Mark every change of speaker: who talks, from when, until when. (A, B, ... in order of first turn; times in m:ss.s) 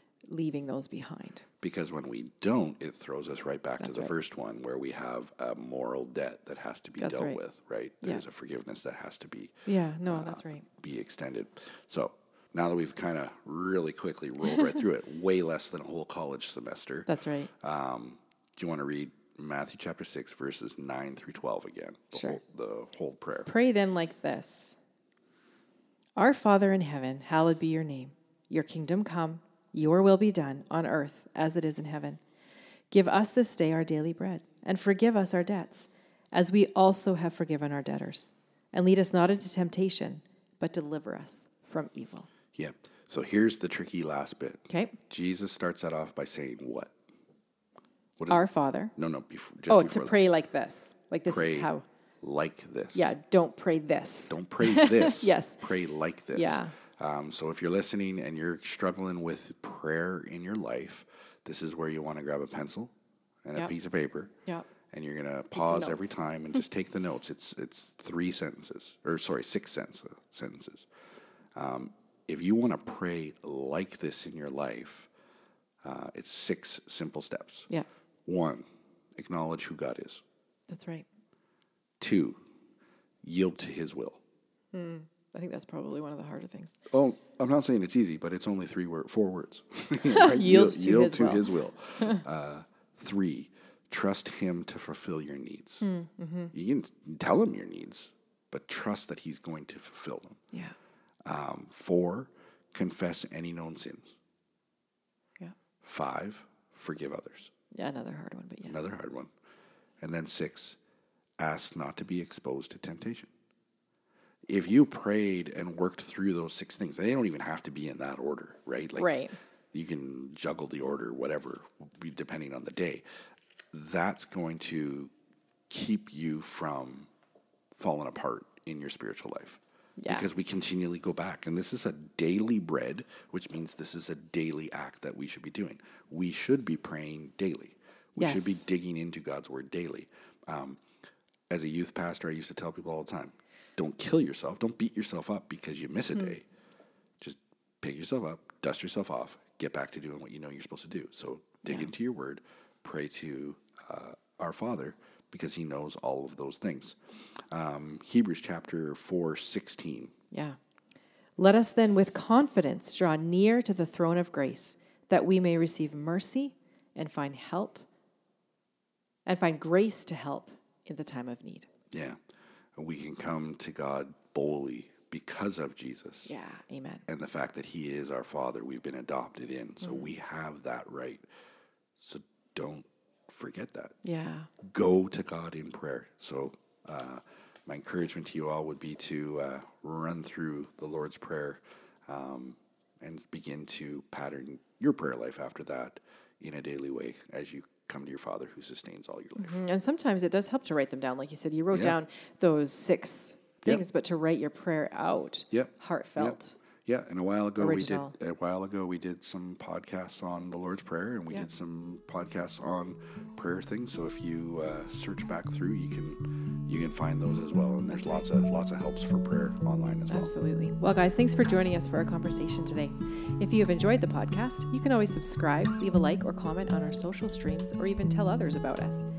0:00.3-0:01.4 A
0:01.6-0:17.1 B
0:03.8-0:04.2 A
0:07.0-0:07.4 A
0:09.7-0:10.7 A
0:17.1-0:17.5 A
0:17.6-0:23.5 B
0:22.1-0:22.4 A
0:23.5-0:24.8 A
0:26.2-0:32.2 A
0:32.9-0:42.3 A
0:42.6-0:46.9 B
0:44.7-0:45.0 A
0:48.2-0:48.4 B
0:48.3-0:48.9 A
0:49.0-0:50.2 B
0:49.7-0:51.8 A
0:51.3-0:53.1 B
0:52.9-0:55.6 A
0:54.3-1:02.9 B
0:56.3-0:56.7 A
1:03.4-1:04.3 B
1:04.9-1:10.9 B
1:05.6-1:06.2 A
1:11.6-1:15.1 B
1:15.8-1:17.7 B
1:18.3-1:18.6 B
1:19.2-1:20.2 B
1:20.7-1:21.1 A
1:22.0-1:22.4 B
1:23.2-1:24.2 B
1:24.7-1:26.8 A
1:26.9-1:35.8 B
1:30.0-1:32.2 A
1:35.8-1:36.5 A
1:36.5-1:40.4 B
1:41.3-1:44.2 B
1:45.8-1:47.5 B
1:47.7-1:48.9 A
1:48.6-1:49.3 B
1:50.0-1:50.8 B
1:51.4-1:53.3 B
1:54.5-1:59.2 B
1:59.0-1:59.4 A
1:59.7-2:03.0 B
2:03.7-2:05.1 B
2:05.7-2:07.1 B
2:07.8-2:20.8 B
2:10.0-2:10.3 A
2:18.2-2:18.7 A
2:21.5-2:26.4 B
2:27.2-2:37.0 B
2:31.6-2:31.9 A
2:37.5-2:40.1 B
2:40.3-2:40.6 A
2:41.4-2:47.9 A
2:49.3-2:51.7 A
2:51.9-2:52.2 B
2:52.8-2:56.3 B
2:56.3-2:57.0 A
2:57.1-3:01.2 B
2:59.8-3:00.1 A
3:02.0-3:04.0 B
3:04.0-3:04.5 A
3:04.6-3:19.6 B
3:19.4-3:26.6 A
3:21.7-3:22.0 B
3:25.5-3:40.3 B
3:27.6-3:28.1 A
3:37.9-3:38.3 A
3:40.1-3:49.1 A